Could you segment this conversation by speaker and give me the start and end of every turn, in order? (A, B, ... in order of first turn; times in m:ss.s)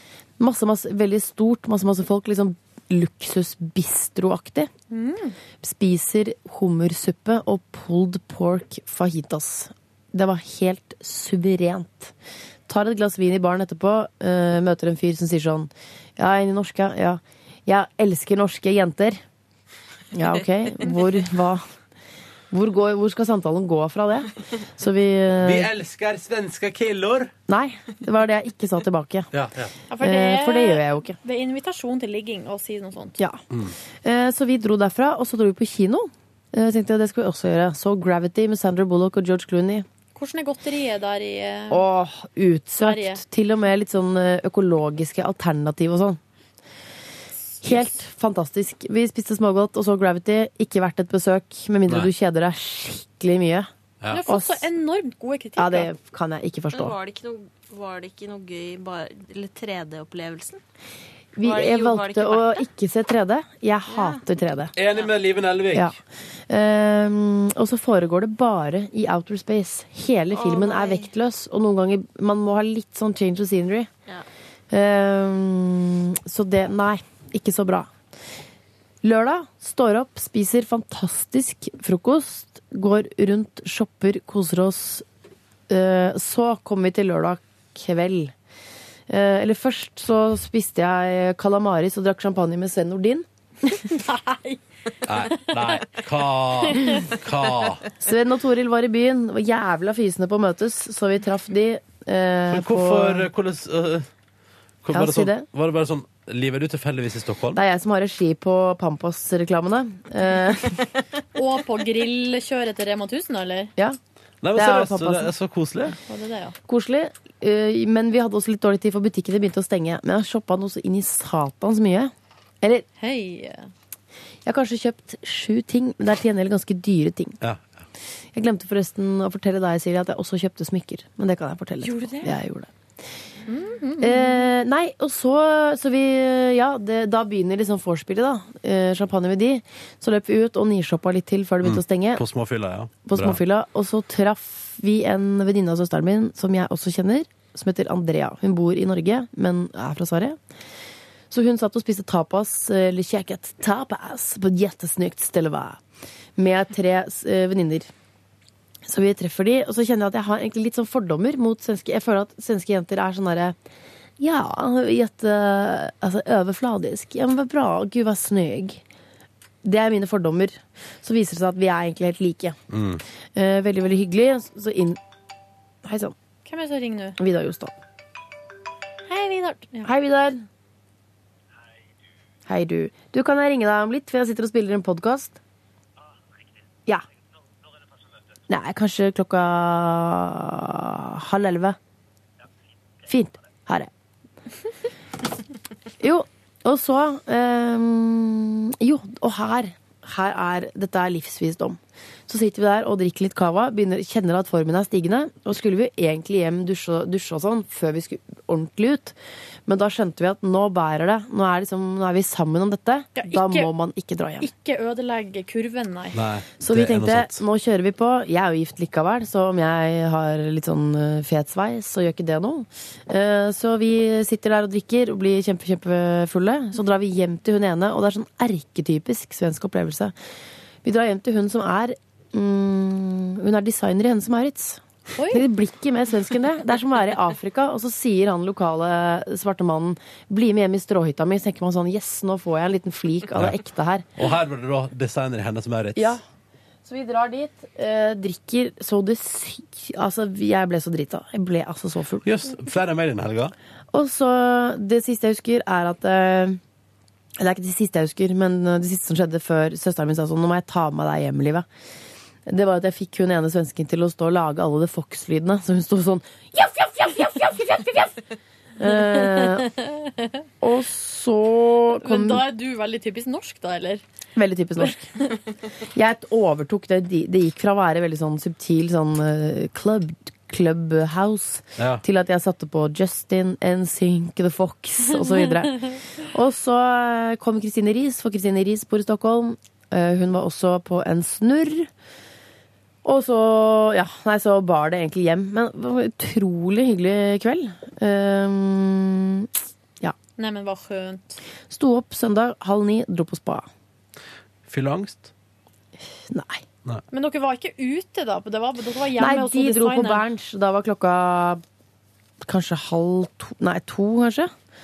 0:00.4-0:04.7 A
0:04.9-0:05.4 B
0:05.6-0:12.1 A
0:12.7-0:19.2 A
0:20.1-0:21.6 A
0:22.5-0:25.7 A
0:25.4-0:27.3 C
0:27.5-0:29.3 A
0:29.3-0:29.7 C
0:29.9-0:33.2 B
0:30.0-0:31.2 A
0:34.0-0:39.9 A
0:40.2-0:41.8 B
0:41.7-0:46.2 A
0:42.8-0:43.2 B
0:47.6-0:53.7 A
0:54.0-0:54.3 C
0:54.1-0:55.9 B
0:54.2-0:54.7 A
0:55.6-0:57.0 A
0:56.7-1:00.6 D
1:01.4-1:04.7 A
1:01.4-1:02.6 D
1:03.9-1:04.2 D
1:04.8-1:05.9 C
1:04.9-1:05.1 D
1:06.5-1:13.9 A
1:10.3-1:11.1 D
1:14.7-1:17.9 A
1:19.0-1:25.0 A
1:25.7-1:28.3 A
1:29.1-1:33.3 A
1:33.9-1:34.6 B
1:35.0-1:37.8 C
1:35.2-1:35.9 B
1:36.6-1:37.1 B
1:38.0-1:43.3 A
1:42.5-1:44.1 C
1:44.8-1:47.6 C
1:44.9-1:45.5 A
1:47.5-1:50.8 A
1:51.4-1:53.7 B
1:54.4-1:56.0 C
1:54.5-1:55.3 A
1:56.1-1:56.6 B
1:56.7-2:02.9 A
2:03.0-2:03.7 B
2:04.5-2:07.4 A
2:08.4-2:12.7 A
2:11.8-2:12.3 B
2:13.5-2:14.4 B
2:14.0-2:22.2 A
2:21.6-2:23.4 C
2:23.1-2:30.4 A
2:31.3-2:35.8 A
2:36.4-2:37.9 A
2:38.8-2:43.6 A
2:44.2-2:48.8 A
2:49.6-2:52.6 A
2:52.7-2:53.0 C
2:53.4-2:55.0 A
2:55.8-2:56.2 A
2:56.4-2:57.2 B
2:57.2-2:57.8 A
2:59.1-2:59.9 B
2:59.8-3:00.4 A
3:02.5-3:05.4 A
3:08.5-3:11.8 A
3:13.1-3:13.9 A
3:16.0-3:29.2 A
3:29.7-3:34.5 A
3:33.2-3:33.7 B
3:34.4-3:36.2 B
3:36.1-3:37.4 C
3:36.6-3:50.2 A
3:50.8-4:04.1 A
3:55.2-3:55.4 B
4:04.2-4:06.2 C
4:06.0-4:06.2 A
4:06.8-4:12.3 A
4:12.2-4:13.5 C
4:13.9-4:16.6 A
4:17.4-4:21.7 A
4:22.5-4:28.2 A
4:28.8-4:29.7 A
4:29.2-4:30.1 B
4:30.6-4:32.4 A
4:32.0-4:34.0 B
4:34.4-4:35.1 A
4:34.8-4:35.3 B
4:35.9-4:51.9 A
4:41.8-4:42.0 C
4:45.2-4:45.9 B
4:53.0-5:00.2 A
5:00.4-5:01.4 B
5:01.7-5:03.7 A
5:04.7-5:05.3 C
5:06.3-5:06.6 A
5:07.1-5:10.3 B
5:09.2-5:11.6 A
5:12.4-5:14.5 A